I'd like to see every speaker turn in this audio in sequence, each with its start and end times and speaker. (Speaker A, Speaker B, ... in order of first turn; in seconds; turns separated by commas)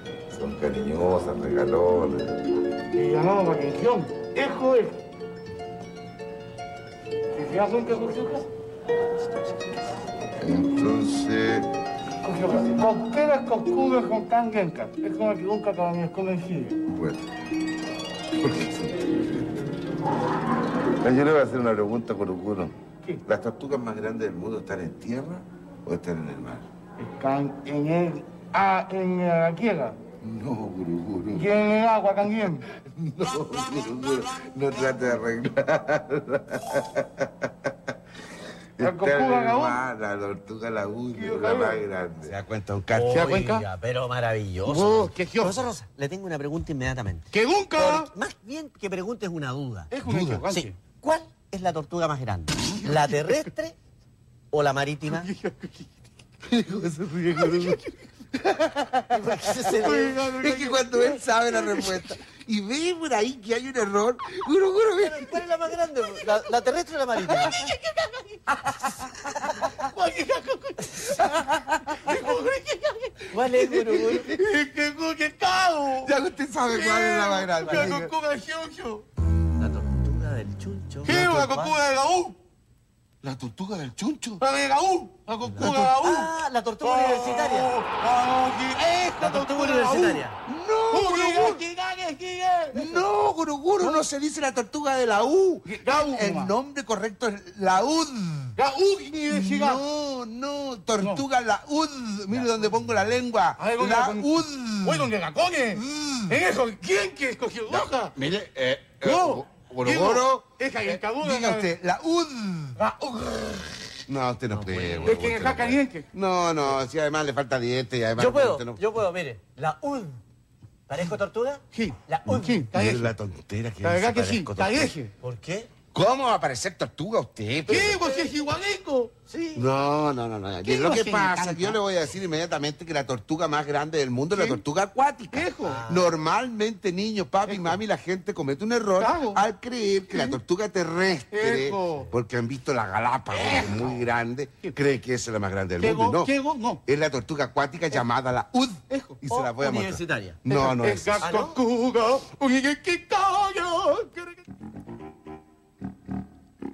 Speaker A: 0.3-2.4, Speaker B: 2.9-5.0, Speaker B: 7.3-8.5, Speaker A: 10.4-11.7, Speaker B: 12.2-16.8, Speaker A: 16.9-17.2, Speaker A: 18.4-19.6, Speaker A: 20.8-26.6, Speaker B: 27.0-30.0, Speaker A: 30.2-31.5, Speaker B: 31.3-32.6, Speaker A: 32.7-37.9, Speaker A: 38.8-43.4, Speaker B: 38.8-39.8, Speaker B: 41.1-41.8, Speaker C: 42.9-49.9, Speaker B: 43.1-43.6, Speaker B: 44.6-45.6, Speaker B: 47.3-48.1, Speaker B: 49.9-50.8, Speaker A: 50.0-50.4, Speaker C: 50.5-53.8, Speaker B: 52.6-53.4, Speaker C: 54.5-55.3, Speaker B: 55.1-56.0, Speaker A: 56.4-57.8, Speaker B: 57.4-57.9, Speaker A: 58.3-59.4, Speaker C: 59.1-60.2, Speaker B: 59.4-62.0, Speaker A: 60.4-65.4, Speaker C: 65.0-67.7, Speaker B: 67.2-76.1, Speaker A: 71.2-72.2, Speaker C: 73.3-74.3, Speaker A: 73.4-74.3, Speaker A: 76.0-78.1, Speaker B: 76.7-79.0, Speaker C: 77.7-77.9, Speaker C: 79.6-81.8, Speaker B: 81.0-82.4, Speaker A: 83.2-84.4, Speaker B: 84.4-90.2, Speaker C: 85.4-87.8, Speaker A: 85.6-85.9, Speaker C: 89.2-90.4, Speaker A: 90.5-91.6, Speaker B: 90.9-93.0, Speaker A: 92.7-98.6, Speaker B: 95.7-96.5, Speaker B: 98.6-99.8, Speaker A: 99.3-105.1, Speaker B: 103.6-104.3, Speaker B: 104.8-108.1, Speaker A: 105.7-106.4, Speaker A: 107.7-112.8, Speaker B: 109.0-111.7, Speaker B: 112.8-113.7, Speaker A: 114.0-118.8, Speaker C: 114.5-115.2, Speaker B: 115.0-116.0, Speaker C: 118.2-120.2, Speaker C: 120.9-122.7, Speaker B: 121.7-123.1, Speaker A: 122.7-124.9, Speaker B: 123.8-125.1, Speaker C: 125.2-125.7, Speaker A: 125.9-128.2, Speaker B: 127.7-129.1, Speaker C: 129.3-129.7, Speaker A: 129.5-146.3, Speaker B: 130.6-131.8, Speaker B: 134.3-134.6, Speaker B: 135.3-135.8, Speaker C: 135.6-136.1, Speaker B: 137.5-137.7, Speaker B: 139.0-139.4, Speaker B: 141.3-142.1, Speaker C: 143.3-144.0, Speaker B: 145.8-146.8, Speaker A: 146.9-151.3, Speaker B: 148.9-149.2, Speaker C: 149.3-150.4, Speaker B: 150.5-154.4, Speaker C: 151.2-151.6